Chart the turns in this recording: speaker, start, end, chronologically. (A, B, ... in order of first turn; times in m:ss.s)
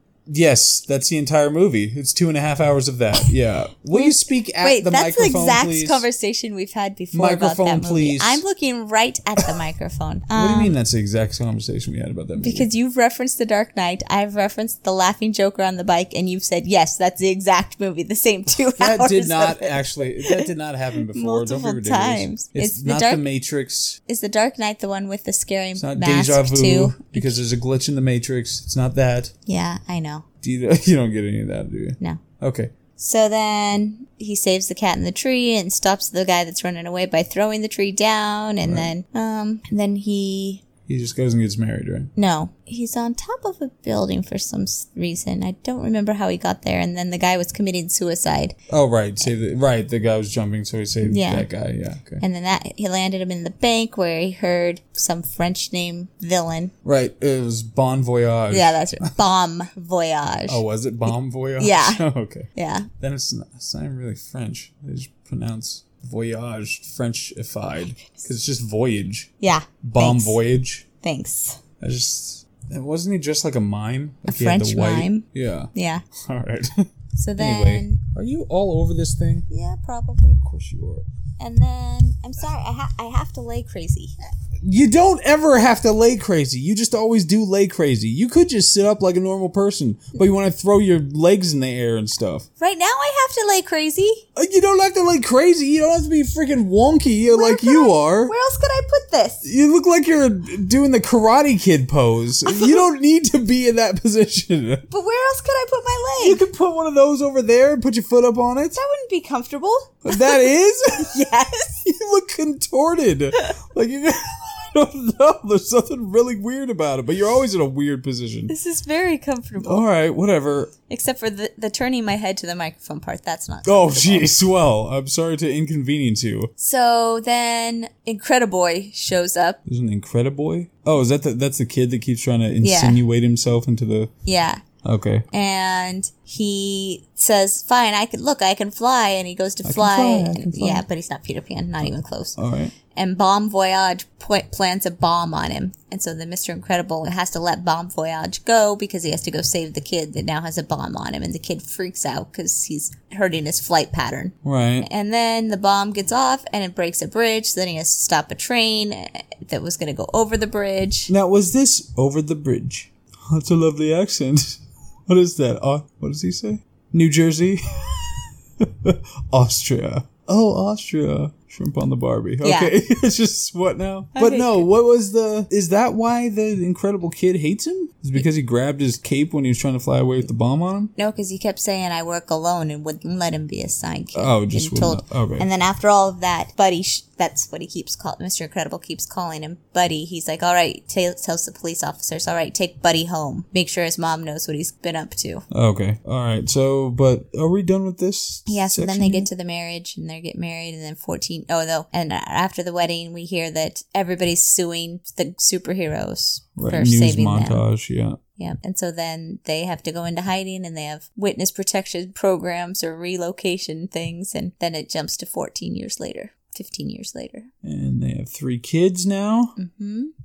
0:00.3-0:06.1 A
0:03.9-0:10.7 B
0:07.1-0:08.4 A
0:10.3-0:12.7 A
0:12.4-0:23.2 B
0:18.8-0:24.0 A
0:24.1-0:27.4 B
0:25.8-0:29.3 A
0:29.5-0:30.2 B
0:30.4-0:32.7 A
0:33.0-0:40.6 B
0:38.6-0:38.9 A
0:40.9-0:42.1 A
0:42.2-0:48.6 B
0:48.7-0:52.2 A
0:51.0-0:51.5 B
0:52.2-0:56.7 B
0:56.8-0:59.1 A
0:58.5-1:02.0 B
1:00.5-1:09.3 A
1:02.6-1:02.9 B
1:09.4-1:10.4 B
1:09.8-1:10.9 A
1:11.0-1:11.6 B
1:11.8-1:19.5 A
1:14.3-1:16.0 B
1:17.2-1:18.0 B
1:19.5-1:20.4 B
1:20.4-1:21.1 A
1:21.4-1:24.1 B
1:24.6-1:32.5 A
1:32.6-1:34.2 B
1:34.4-1:38.3 A
1:37.3-1:39.4 B
1:39.4-1:44.8 A
1:42.5-1:42.8 B
1:44.9-1:46.4 B
1:46.2-1:48.8 A
1:48.8-1:50.4 B
1:50.0-1:51.2 A
1:51.0-1:51.8 B
1:51.8-1:58.5 A
1:58.5-1:59.9 B
1:59.6-2:00.7 A
2:00.9-2:04.3 B
2:03.7-2:06.5 A
2:06.6-2:09.6 B
2:09.7-2:14.1 A
2:12.6-2:13.0 B
2:14.2-2:14.6 B
2:14.8-2:15.3 A
2:15.3-2:22.4 B
2:19.6-2:20.8 A
2:22.4-2:22.7 A
2:22.9-2:41.1 B
2:34.4-2:34.9 A
2:41.1-3:00.9 A
2:52.4-2:52.7 B
2:54.2-2:54.7 B
3:01.0-3:15.4 B
3:04.1-3:05.5 A
3:15.5-3:19.3 A
3:18.5-3:27.6 B
3:26.6-3:28.2 A
3:28.4-3:37.5 B
3:37.6-3:39.6 A
3:39.6-3:40.1 B